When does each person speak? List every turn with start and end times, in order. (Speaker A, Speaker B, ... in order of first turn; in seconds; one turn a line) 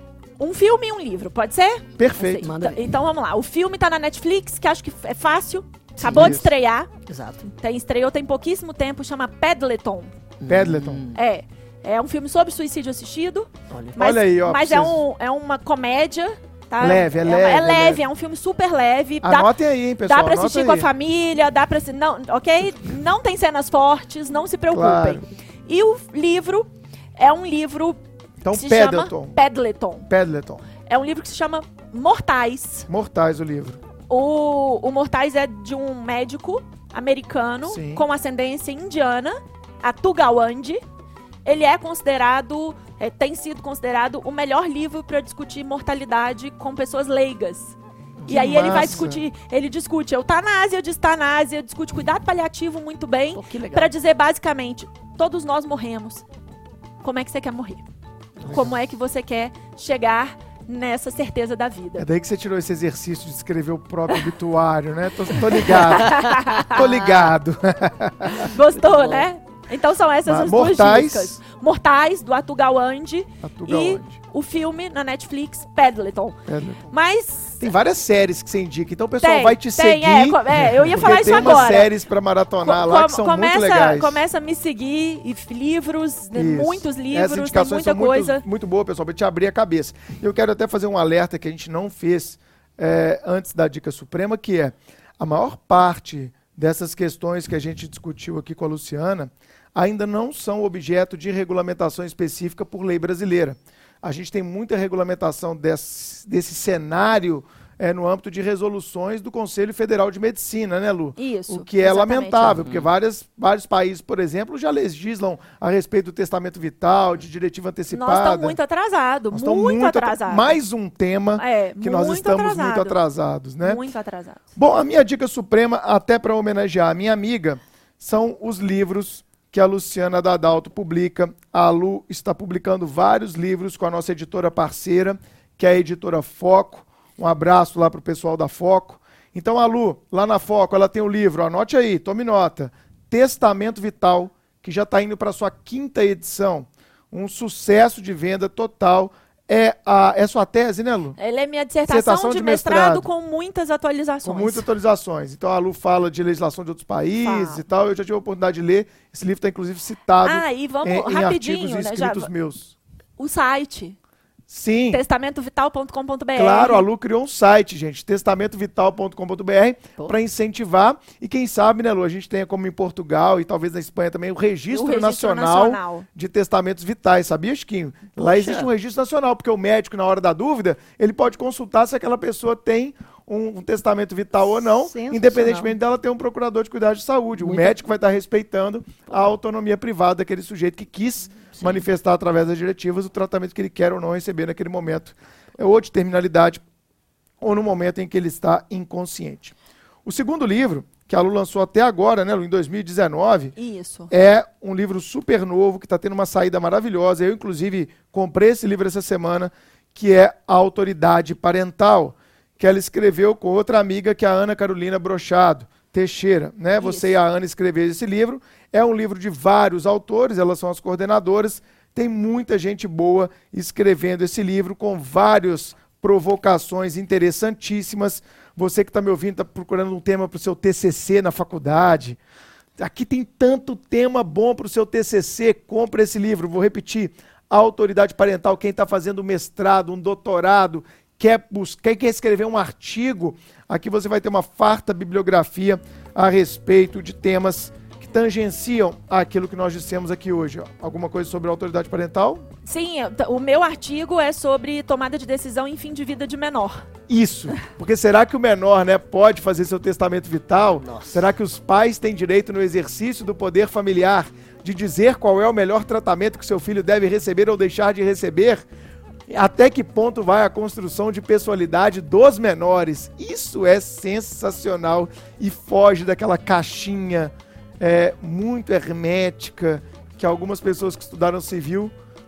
Speaker A: 0.4-6.9
Speaker B: 2.0-2.5
Speaker C: 2.4-2.8
Speaker C: 6.0-6.4
Speaker B: 6.1-6.5
Speaker C: 7.1-7.5
Speaker A: 7.4-10.1
Speaker C: 10.4-11.2
Speaker B: 10.5-11.0
Speaker A: 11.2-19.5
Speaker C: 13.7-14.0
Speaker B: 14.0-15.0
Speaker B: 16.8-18.0
Speaker B: 19.2-20.9
Speaker A: 20.1-28.0
Speaker B: 24.7-25.2
Speaker B: 28.4-29.4
Speaker A: 28.5-30.1
Speaker B: 30.1-30.6
Speaker A: 30.9-32.9
Speaker B: 32.9-33.8
Speaker A: 34.1-40.8
Speaker B: 37.7-38.0
Speaker A: 41.5-47.8
Speaker C: 48.2-48.9
Speaker B: 48.3-49.2
Speaker A: 48.3-56.2
Speaker C: 53.3-53.9
Speaker A: 57.0-57.9
Speaker C: 58.4-58.7
Speaker A: 58.5-62.1
Speaker B: 62.0-68.5
Speaker A: 65.7-67.3
Speaker A: 68.4-77.7
Speaker C: 68.8-69.3
Speaker B: 70.2-71.4
Speaker B: 73.4-74.2
Speaker B: 76.5-76.9
Speaker B: 77.6-84.2
Speaker A: 79.2-81.9
Speaker A: 82.6-88.5
Speaker B: 86.3-118.6
Speaker A: 111.2-112.7
Speaker A: 117.9-120.6
Speaker B: 119.3-123.8
Speaker A: 121.4-123.0
Speaker A: 123.6-124.5
Speaker B: 124.6-151.2
Speaker A: 151.2-154.7
Speaker B: 151.9-153.1
Speaker B: 154.2-162.8
Speaker A: 157.2-157.6
Speaker A: 160.2-162.3
Speaker A: 163.2-164.0
Speaker B: 164.5-165.0
Speaker A: 164.9-166.8
Speaker B: 166.3-196.6
Speaker A: 174.7-176.1
Speaker C: 178.2-178.7
Speaker C: 184.8-185.7
Speaker C: 187.4-187.8
Speaker C: 191.6-191.8
Speaker B: 197.4-203.6
Speaker A: 203.6-204.1
Speaker B: 204.1-232.2
Speaker A: 216.8-217.1
Speaker B: 232.8-252.5
Speaker A: 252.7-256.8
Speaker B: 257.1-268.6
Speaker C: 260.9-261.1
Speaker B: 269.3-281.9